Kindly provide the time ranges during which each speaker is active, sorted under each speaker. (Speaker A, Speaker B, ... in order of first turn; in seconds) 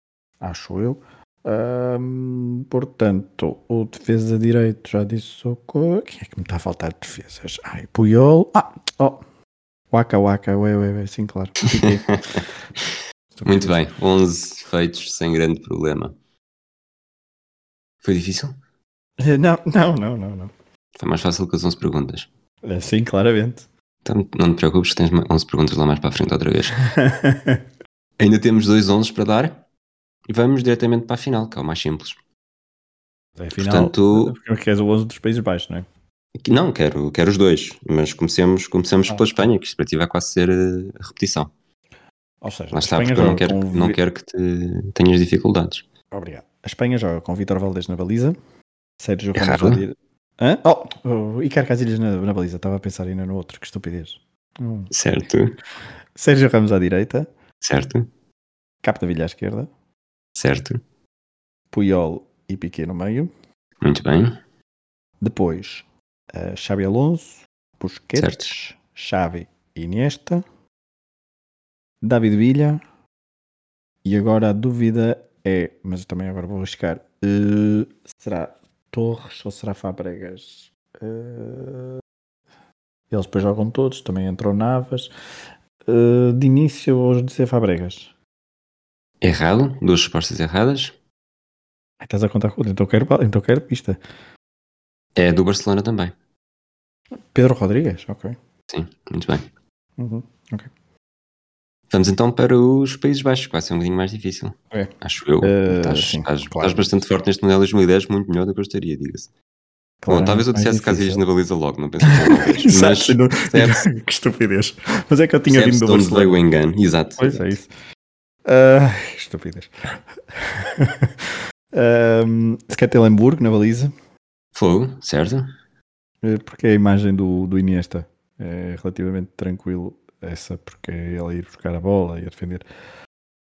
Speaker A: 0.4-9.2, 9.9-12.4, 13.3-13.8, 19.2-20.5, 22.6-23.6, 26.8-27.6, 33.4-35.9, 39.1-39.4, 42.4-44.0, 46.1-48.4, 49.0-54.9, 56.2-57.3, 58.8-59.7, 61.7-63.3, 65.2-70.4, 72.0-72.8, 74.0-82.0, 83.1-85.1, 85.9-88.1, 92.0-94.0, 97.3-98.3, 100.0-100.7, 104.7-106.9, 110.0-111.2, 112.0-116.4, 117.2-117.7, 118.5-123.9, 126.2-132.7
Speaker B: 11.8-16.1, 18.0-18.6, 21.0-22.3, 24.1-26.8, 28.2-29.6, 30.3-32.2, 33.6-34.3, 36.4-41.5, 42.7-45.9, 49.4-49.8, 54.9-55.5, 57.6-58.1, 60.4-60.8, 63.8-64.4, 68.2-68.5, 89.2-91.0, 95.2-96.1, 98.7-99.5, 101.9-109.3, 110.1-113.8, 115.5-117.5, 124.5-125.5